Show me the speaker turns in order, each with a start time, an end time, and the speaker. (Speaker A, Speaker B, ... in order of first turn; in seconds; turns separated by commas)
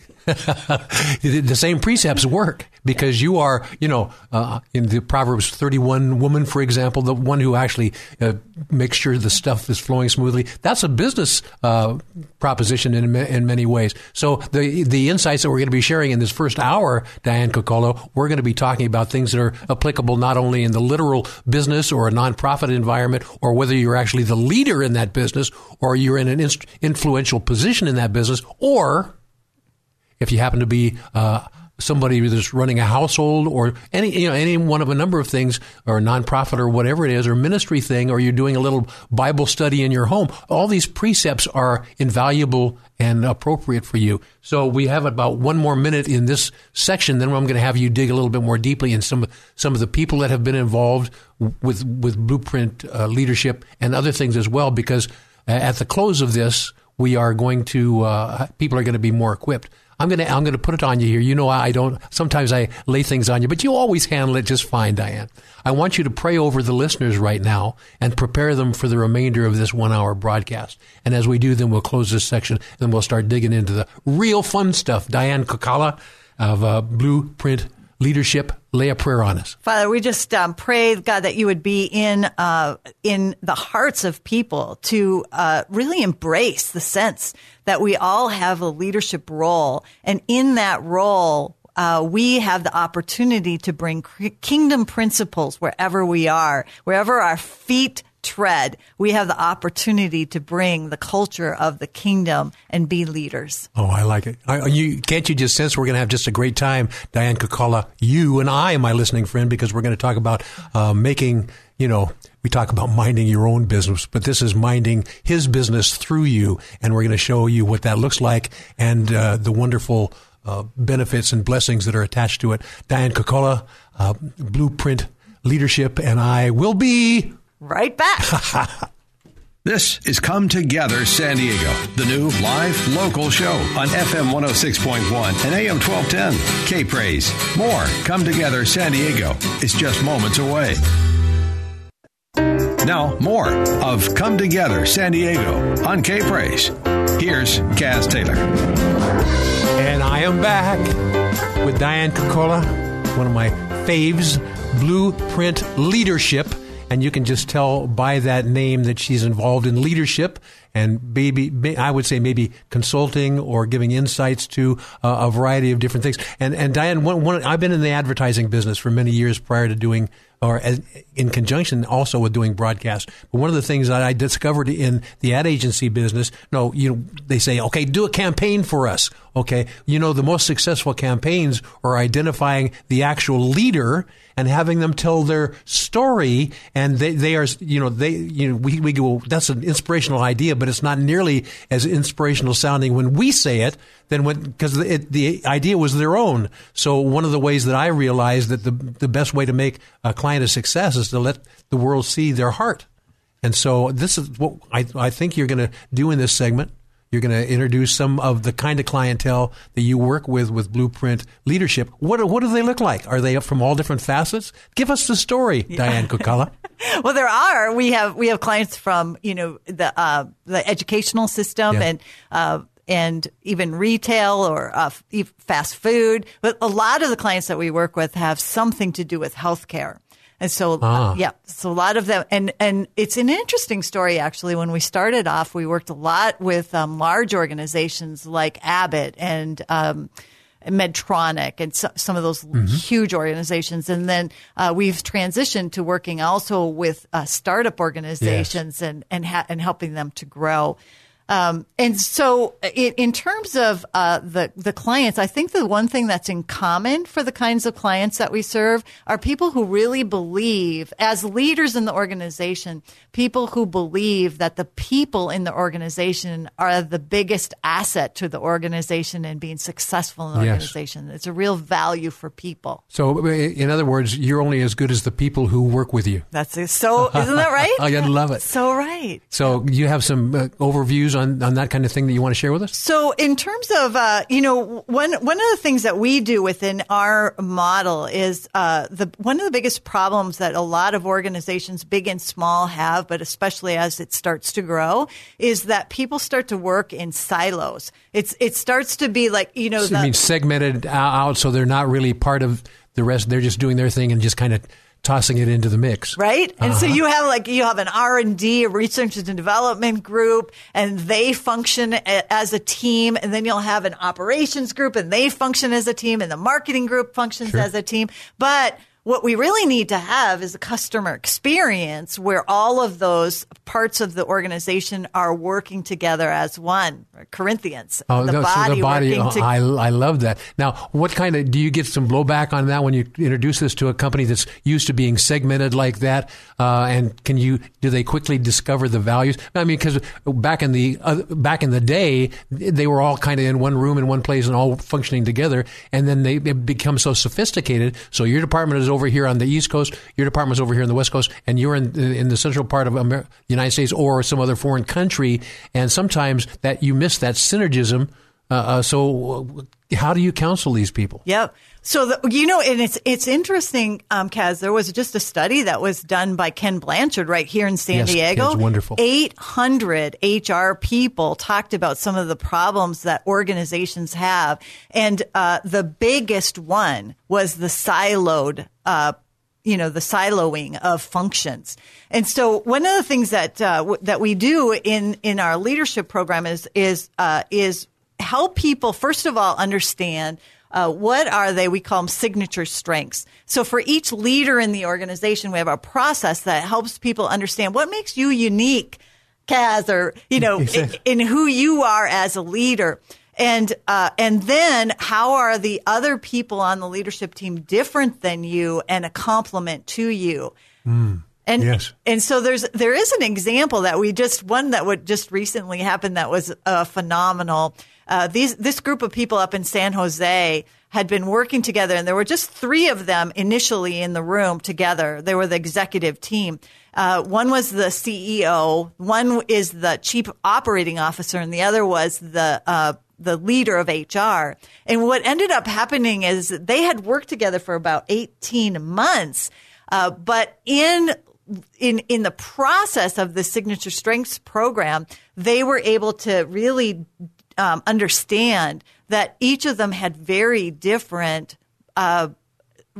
Speaker A: 0.3-29.1, Speaker A: 30.2-79.5, Speaker B: 79.6-103.7, Speaker A: 103.8-127.3, Speaker B: 127.6-128.4, Speaker A: 128.3-128.7, Speaker C: 129.6-140.8, Speaker C: 142.8-148.5, Speaker A: 149.7-151.0, Speaker A: 151.6-202.8, Speaker A: 203.4-216.5, Speaker B: 216.8-240.1, Speaker A: 230.8-231.2, Speaker B: 240.6-250.8, Speaker A: 242.5-242.8, Speaker A: 248.2-248.5, Speaker B: 251.3-272.8, Speaker A: 270.3-270.7, Speaker A: 272.9-276.2, Speaker B: 276.3-279.3, Speaker A: 277.0-278.5, Speaker A: 279.3-282.7, Speaker B: 282.7-300.1, Speaker A: 299.8-307.0, Speaker B: 306.1-329.5, Speaker A: 328.1-361.2, Speaker B: 361.2-410.5, Speaker A: 367.9-369.0, Speaker A: 400.4-400.9, Speaker A: 410.9-411.9, Speaker B: 411.4-447.1, Speaker B: 447.6-452.3